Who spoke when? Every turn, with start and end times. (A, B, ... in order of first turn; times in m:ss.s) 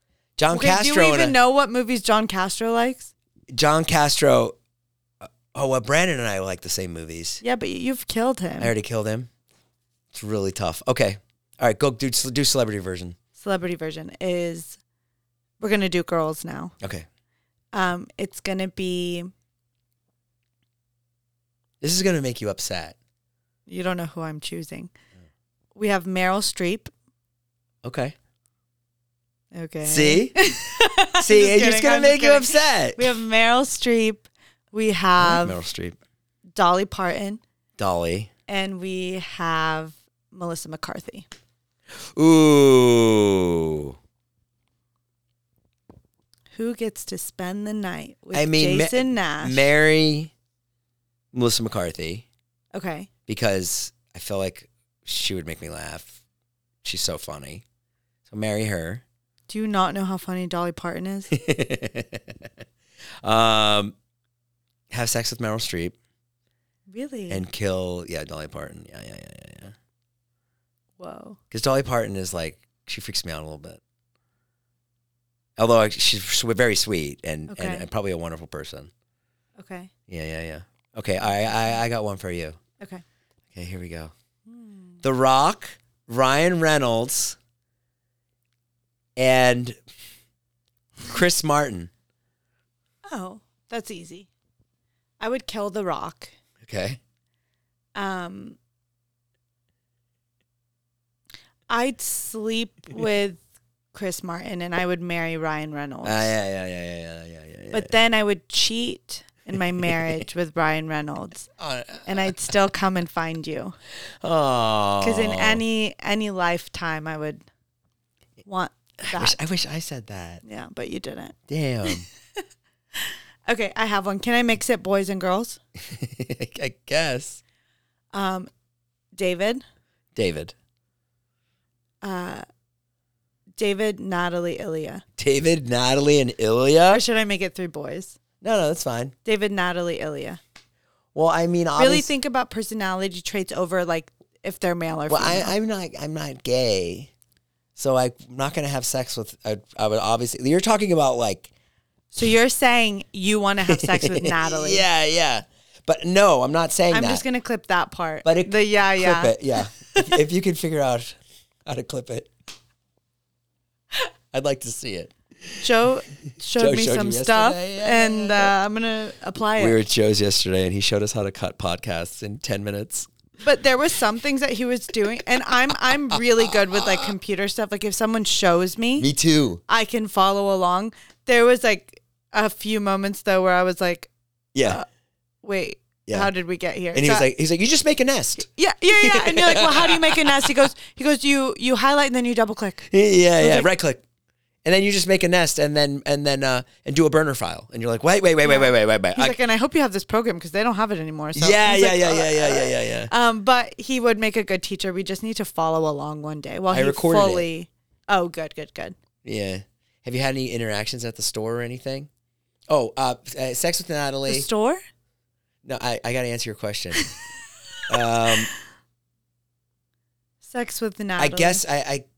0:00.4-0:01.4 A
0:00.5-0:03.1 B
0:03.5-0:04.5 A
0:05.2-0:07.4 A
0:07.4-0:08.7 B
0:08.6-0:09.3 A
0:10.1-0:13.2 A
0:13.4-0:14.8 B
0:15.6-0:16.7 B
0:16.8-0:17.1 A
0:17.7-0:19.3 B
0:21.8-0:23.0 A
0:23.7-0:24.9 B
0:25.7-0:26.9 B
0:27.8-0:28.2 A
0:29.5-0:35.6 B
0:29.8-0:30.4 A
0:31.2-0:33.1 A
0:35.2-0:36.0 A
0:36.6-0:37.4 B
0:37.8-0:38.3 A
0:38.5-0:41.3 B
0:41.9-0:44.0 A
0:46.5-0:49.7 B
0:48.3-0:50.3 A
0:51.3-0:52.2 A
0:52.7-0:53.1 B
0:53.3-0:56.2 A
0:56.8-0:57.6 A
0:58.3-0:59.0 A
0:59.5-1:01.3 B
1:01.3-1:02.5 A
1:03.2-1:03.9 A
1:04.9-1:06.0 A
1:06.9-1:07.4 B
1:07.3-1:09.7 A
1:11.0-1:11.4 B
1:11.5-1:13.8 A
1:15.6-1:18.9 A
1:17.5-1:17.8 B
1:19.6-1:19.9 B
1:20.1-1:22.6 A
1:23.5-1:24.1 A
1:24.5-1:25.0 B
1:25.0-1:27.4 A
1:29.2-1:29.8 A
1:31.0-1:31.9 A
1:33.1-1:34.3 B
1:35.2-1:36.3 B
1:36.6-1:37.0 A
1:37.9-1:38.6 B
1:41.7-1:46.3 B
1:46.0-1:47.9 A
1:47.7-1:51.5 B
1:49.8-1:50.1 A
1:51.6-1:52.5 A
1:52.0-1:53.8 B
1:54.2-1:55.6 A
1:55.0-1:57.4 B
1:58.4-1:59.4 B
1:59.0-2:00.4 A
2:00.4-2:02.0 B
2:01.5-2:02.0 A
2:02.9-2:05.6 B
2:05.8-2:07.4 A
2:08.1-2:08.5 B
2:09.1-2:09.6 B
2:10.1-2:10.5 A
2:12.0-2:12.4 B
2:13.6-2:15.0 B
2:15.2-2:17.0 A
2:16.9-2:18.2 B
2:18.4-2:19.1 A
2:19.2-2:20.4 B
2:21.1-2:22.1 A
2:21.8-2:25.5 B
2:25.1-2:27.1 A
2:27.8-2:31.5 A
2:32.1-2:34.8 B
2:33.7-2:37.2 A
2:36.9-2:40.2 B
2:38.2-2:42.3 A
2:44.3-2:45.7 A
2:45.6-2:49.8 B
2:46.6-2:48.5 A
2:49.6-2:53.1 A
2:53.4-2:59.1 B
2:56.2-2:57.1 A
2:59.0-2:59.6 A
2:59.7-3:04.1 B
3:04.5-3:04.8 A
3:05.4-3:07.2 B
3:06.0-3:06.3 A
3:06.9-3:08.5 A
3:08.4-3:12.8 B
3:09.0-3:10.5 A
3:12.9-3:14.0 A
3:13.4-3:13.7 B
3:14.6-3:19.4 A
3:18.4-3:28.9 B
3:21.3-3:23.1 A
3:26.7-3:27.4 A
3:29.2-3:32.1 A
3:32.7-3:34.5 A
3:34.3-3:34.8 B
3:35.6-3:37.1 A
3:37.9-3:38.5 A
3:40.4-3:41.6 B
3:41.2-3:42.0 A